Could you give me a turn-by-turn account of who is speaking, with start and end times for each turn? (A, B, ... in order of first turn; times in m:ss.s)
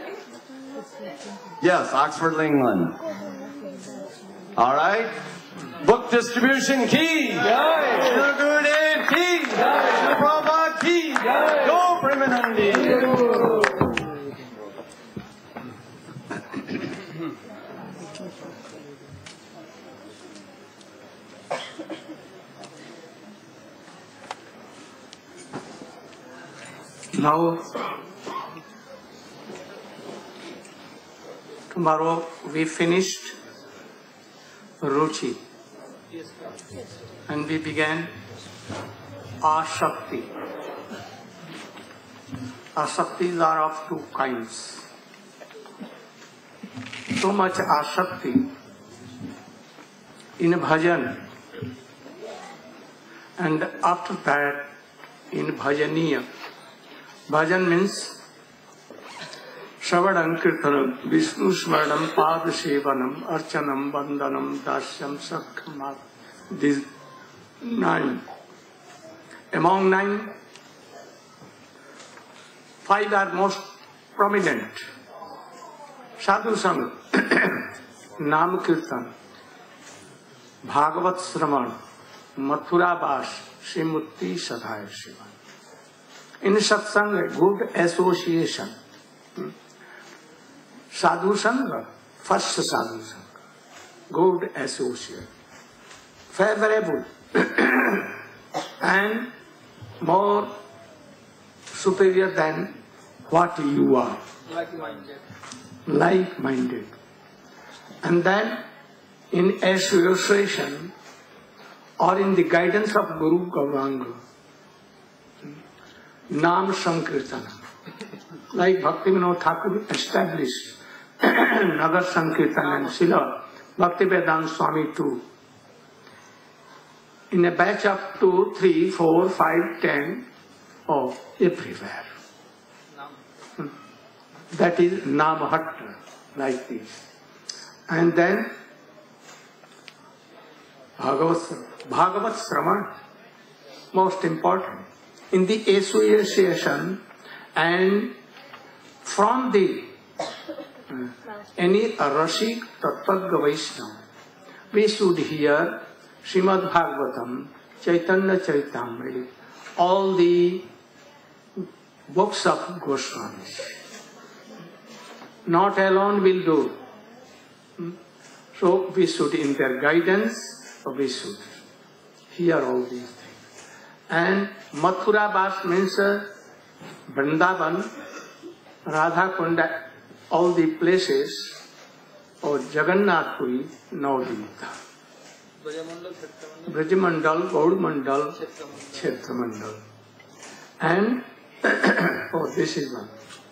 0:01.6-0:03.0 A
0:04.6-0:05.1 A
0:05.8-0:13.4 A
0:27.1-0:27.7 B
0:31.7-0:33.4 B
0:34.8-0:35.4 B
0:36.1-0:36.6 C
0:37.3-0:38.1 B
0:39.4-0:40.3 B
0:42.8-0:44.8 B
0:47.2-0:48.5 B
0:50.4-0:51.2 B
0:53.4-0:54.7 B
0:55.3-0:56.3 B
0:57.3-0:58.2 B
0:59.8-1:06.9 B
1:07.6-1:08.2 B
1:09.5-1:10.3 B
1:12.8-1:14.8 B
1:16.2-1:17.7 B
1:18.2-1:19.1 B
1:20.6-1:21.8 B
1:22.4-1:25.3 B
1:26.4-1:28.7 B
1:30.9-1:33.4 B
1:34.1-1:35.3 B
1:36.3-1:38.1 B
1:38.8-1:39.3 B
1:40.0-1:40.5 B
1:41.7-1:42.8 B
1:43.3-1:44.2 B
1:44.5-1:45.2 C
1:45.9-1:46.9 B
1:48.0-1:48.6 B
1:49.3-1:50.9 B
1:52.0-1:54.2 B
1:56.3-1:57.7 B
1:58.5-2:05.2 B
2:02.6-2:02.9 C
2:07.3-2:10.3 B
2:10.9-2:12.1 B
2:14.5-2:17.0 B
2:17.9-2:18.5 B
2:21.0-2:22.9 B
2:23.9-2:27.0 B
2:27.6-2:28.2 B
2:29.0-2:29.9 B
2:30.9-2:34.0 B
2:34.7-2:40.7 B
2:42.1-2:43.8 B
2:45.5-2:46.8 B
2:48.6-2:51.6 B
2:52.3-2:53.4 B
2:54.1-2:56.3 B
2:57.1-2:57.9 B
2:58.9-3:01.6 B
3:02.4-3:04.8 B
3:05.6-3:06.8 C
3:06.7-3:08.4 B
3:08.4-3:08.9 C
3:08.9-3:09.8 B
3:10.8-3:13.1 B